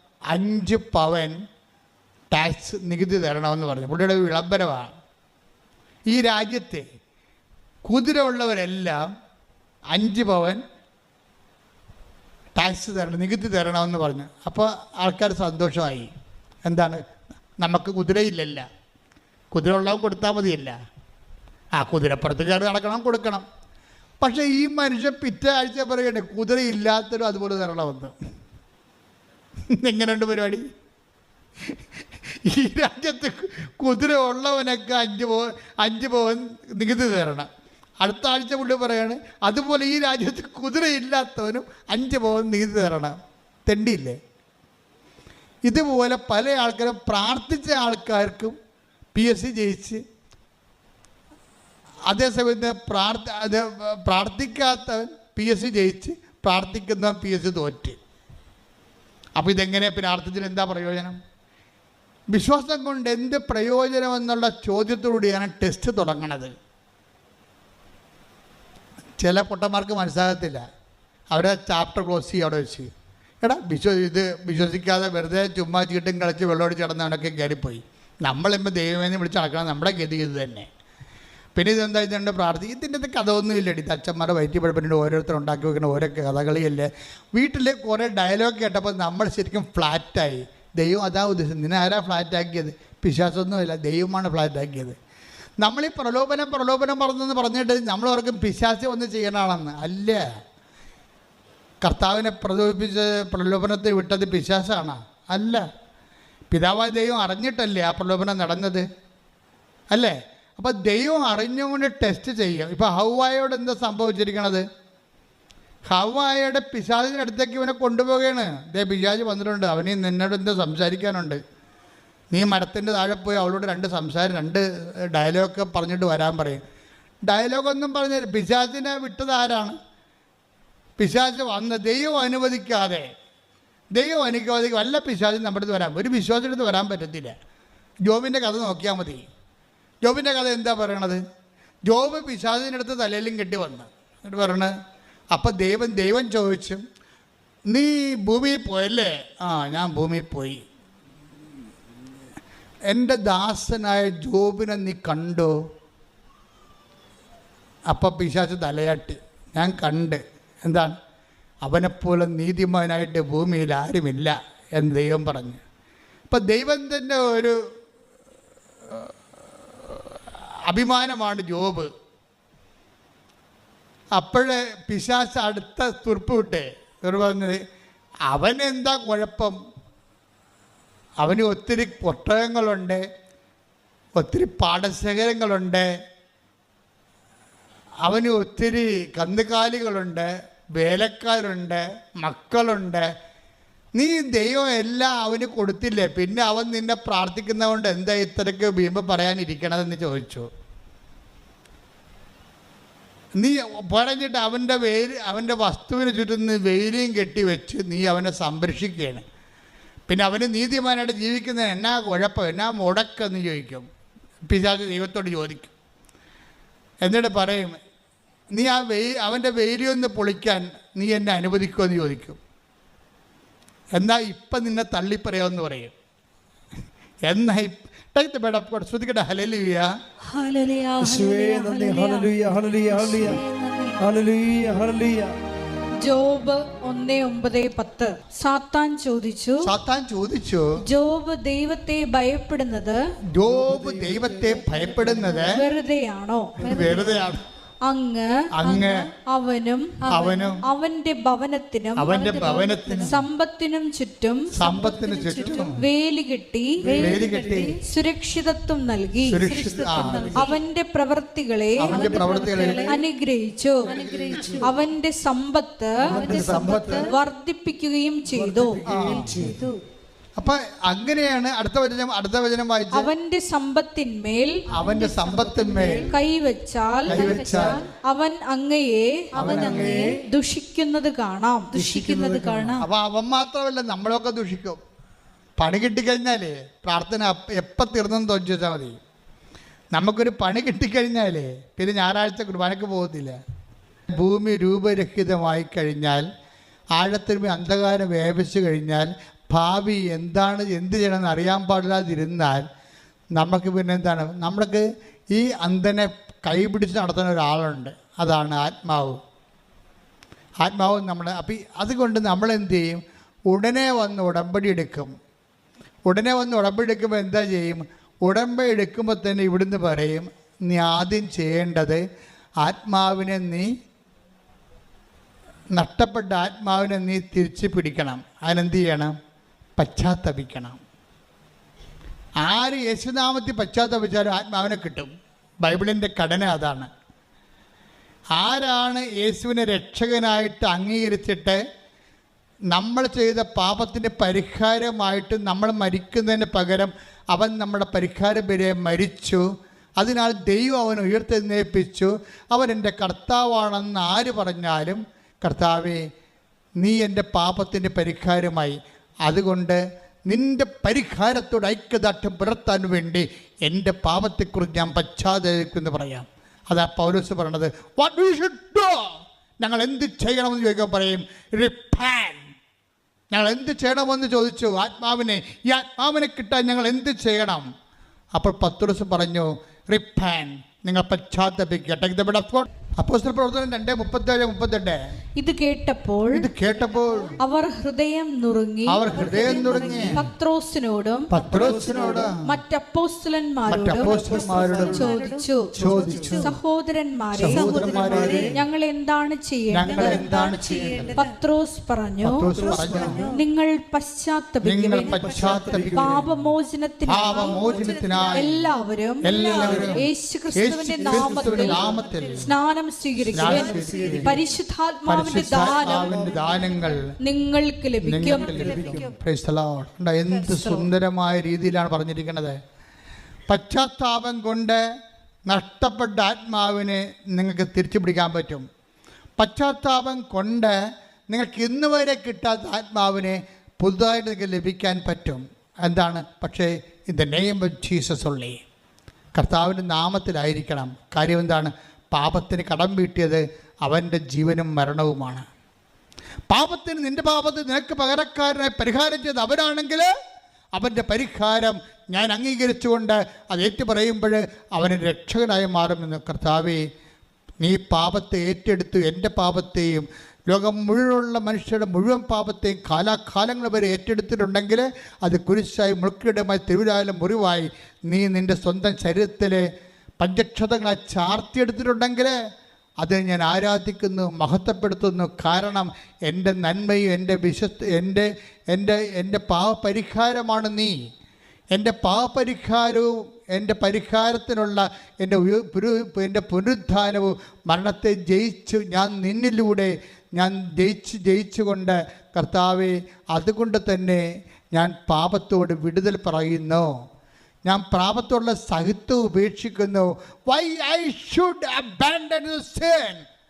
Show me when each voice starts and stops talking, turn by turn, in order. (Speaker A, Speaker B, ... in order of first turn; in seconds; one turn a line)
Speaker A: 0.3-1.4
Speaker A: 2.3-4.9
Speaker A: 6.1-6.9
Speaker A: 7.8-9.1
Speaker A: 9.9-10.6
Speaker A: 12.6-16.1
Speaker A: 16.6-17.0
Speaker A: 17.6-18.7
Speaker A: 19.5-20.8
Speaker A: 21.8-23.4
Speaker A: 24.2-28.1
Speaker A: 29.7-30.6
Speaker A: 32.4-37.5
Speaker A: 38.0-44.2
Speaker A: 45.7-48.6
Speaker A: 49.1-50.0
Speaker A: 52.1-58.0
Speaker A: 59.4-61.2
Speaker A: 62.3-66.5
Speaker A: 69.2-70.6
Speaker A: 71.3-80.7
Speaker A: 81.5-95.0
Speaker A: 95.6-100.2
Speaker A: 101.8-105.7
Speaker A: 106.5-108.9
Speaker A: 109.9-114.6
Speaker A: 115.9-121.4
Speaker A: 122.3-126.6
Speaker A: 127.2-129.8
Speaker A: 131.0-133.1
Speaker A: 133.9-137.3
Speaker A: 138.1-139.3
Speaker A: 140.0-141.2
Speaker A: 141.9-144.7
Speaker A: 145.3-146.8
Speaker A: 147.7-150.6
Speaker A: 152.9-155.6
Speaker A: 157.9-161.0
Speaker A: 161.6-165.6
Speaker A: 166.3-167.6
Speaker A: 169.8-171.9
Speaker A: 174.2-177.6
Speaker A: 178.3-179.6
Speaker A: 181.2-183.0
Speaker A: 184.2-185.9
Speaker A: 188.1-193.1
Speaker A: 193.9-200.5
Speaker A: 203.4-209.2
Speaker A: 210.1-213.9
Speaker A: 214.5-215.7
Speaker A: 217.0-217.8
Speaker A: 218.5-222.4
Speaker A: 223.9-225.9
Speaker A: 227.2-229.9
Speaker B: 230.3-234.0
Speaker C: 231.0-233.4
Speaker C: 234.0-235.3
Speaker D: 236.0-239.7
Speaker A: 239.6-240.7
Speaker D: 240.9-243.0
Speaker A: 243.3-245.6
Speaker C: 243.5-245.3
Speaker D: 245.4-246.6
Speaker B: 246.6-247.3
Speaker A: 246.6-247.4
Speaker C: 246.7-247.2
Speaker D: 247.8-248.3
Speaker A: 248.6-249.1
Speaker B: 248.6-249.1
Speaker D: 249.3-250.0
Speaker B: 250.1-250.6
Speaker A: 250.1-250.6
Speaker D: 250.6-252.5
Speaker A: 252.0-253.2
Speaker B: 252.1-253.2
Speaker D: 253.1-254.5
Speaker B: 254.5-255.8
Speaker A: 254.5-255.8
Speaker D: 255.7-256.8
Speaker B: 256.8-257.8
Speaker A: 256.9-257.8
Speaker D: 257.8-259.4
Speaker A: 259.2-260.4
Speaker B: 259.4-260.6
Speaker C: 260.0-260.3
Speaker D: 260.4-262.2
Speaker A: 261.8-263.0
Speaker B: 261.8-263.0
Speaker D: 262.8-263.9
Speaker B: 263.9-264.8
Speaker C: 263.9-264.6
Speaker D: 264.6-268.8
Speaker B: 266.1-267.1
Speaker C: 266.1-266.9
Speaker A: 266.2-267.1
Speaker C: 268.3-269.6
Speaker A: 268.9-269.6
Speaker B: 268.9-269.8
Speaker A: 270.4-273.1
Speaker D: 272.9-274.6
Speaker A: 274.7-276.2
Speaker B: 274.8-276.1
Speaker D: 276.0-277.2
Speaker B: 277.1-277.9
Speaker A: 277.1-277.8
Speaker C: 277.2-277.8
Speaker D: 278.0-281.8
Speaker B: 279.4-280.2
Speaker A: 279.4-280.1
Speaker B: 281.7-282.9
Speaker C: 281.8-282.8
Speaker A: 282.8-284.8
Speaker A: 285.6-289.0
Speaker A: 289.9-293.4
Speaker A: 294.1-296.3
Speaker A: 296.9-302.6
Speaker A: 303.4-309.2
Speaker A: 310.6-315.1
Speaker A: 316.1-322.0
Speaker A: 322.6-323.7
Speaker A: 325.7-329.1
Speaker A: 329.8-330.8
Speaker A: 332.4-335.1
Speaker A: 335.6-336.9
Speaker A: 338.4-341.6
Speaker A: 342.7-349.4
Speaker A: 350.0-356.0
Speaker A: 356.8-372.4
Speaker A: 373.3-377.7
Speaker A: 378.4-385.0
Speaker D: 385.4-386.5
Speaker A: 386.3-387.4
Speaker D: 387.4-391.3
Speaker A: 388.9-390.2
Speaker B: 389.1-390.1
Speaker C: 389.8-390.1
Speaker A: 391.3-392.6
Speaker C: 391.4-392.3
Speaker D: 392.4-394.2
Speaker A: 393.7-395.2
Speaker C: 394.1-394.9
Speaker B: 394.8-396.5
Speaker D: 394.9-395.7
Speaker C: 395.8-396.3
Speaker A: 395.8-396.6
Speaker D: 396.4-400.2
Speaker A: 397.4-398.6
Speaker B: 397.4-398.5
Speaker C: 397.8-398.5
Speaker A: 399.7-401.2
Speaker B: 399.9-401.3
Speaker D: 401.1-402.5
Speaker A: 402.2-403.3
Speaker C: 402.5-403.2
Speaker B: 402.6-403.4
Speaker D: 403.2-411.9
Speaker A: 404.6-406.3
Speaker C: 405.2-406.2
Speaker A: 407.1-408.6
Speaker B: 407.4-408.2
Speaker A: 409.2-410.0
Speaker B: 409.3-409.8
Speaker A: 410.6-412.5
Speaker D: 412.4-416.3
Speaker A: 413.3-414.4
Speaker B: 413.5-413.8
Speaker A: 415.1-417.0
Speaker D: 417.2-418.8
Speaker A: 418.1-422.6
Speaker B: 418.7-419.1
Speaker A: 423.5-424.8
Speaker A: 425.5-428.6
Speaker A: 429.4-430.8
Speaker A: 431.3-438.6
Speaker A: 439.4-445.5
Speaker A: 446.5-450.1
Speaker A: 450.8-456.9
Speaker A: 457.6-469.7
Speaker A: 470.2-472.4
Speaker A: 473.0-481.1
Speaker A: 481.7-496.9
Speaker A: 497.6-503.2